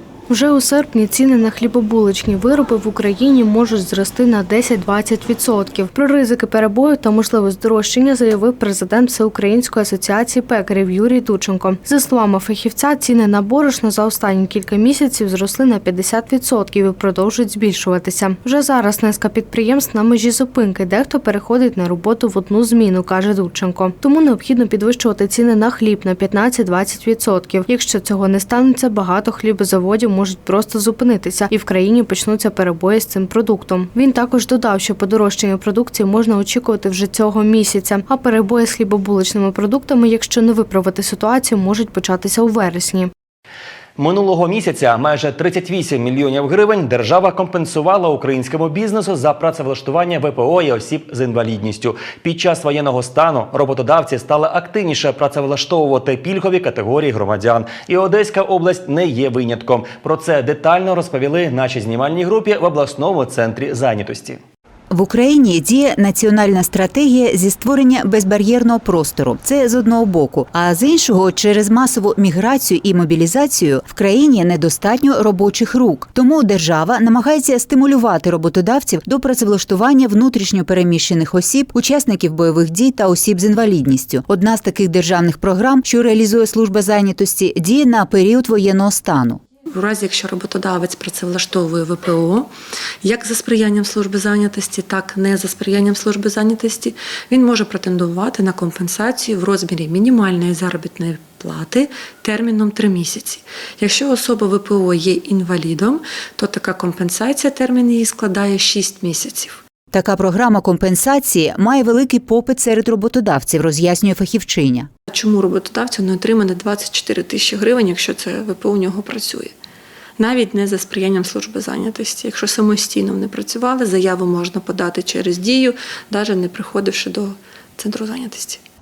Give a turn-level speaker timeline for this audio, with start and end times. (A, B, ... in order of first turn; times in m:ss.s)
0:00.3-0:43.1 A
0:44.0-1:04.4 B
1:04.9-1:29.4 C
1:29.7-1:32.5 D
1:33.0-1:49.6 D
1:49.9-1:54.9 C
1:55.1-1:59.6 D
2:00.2-2:08.6 D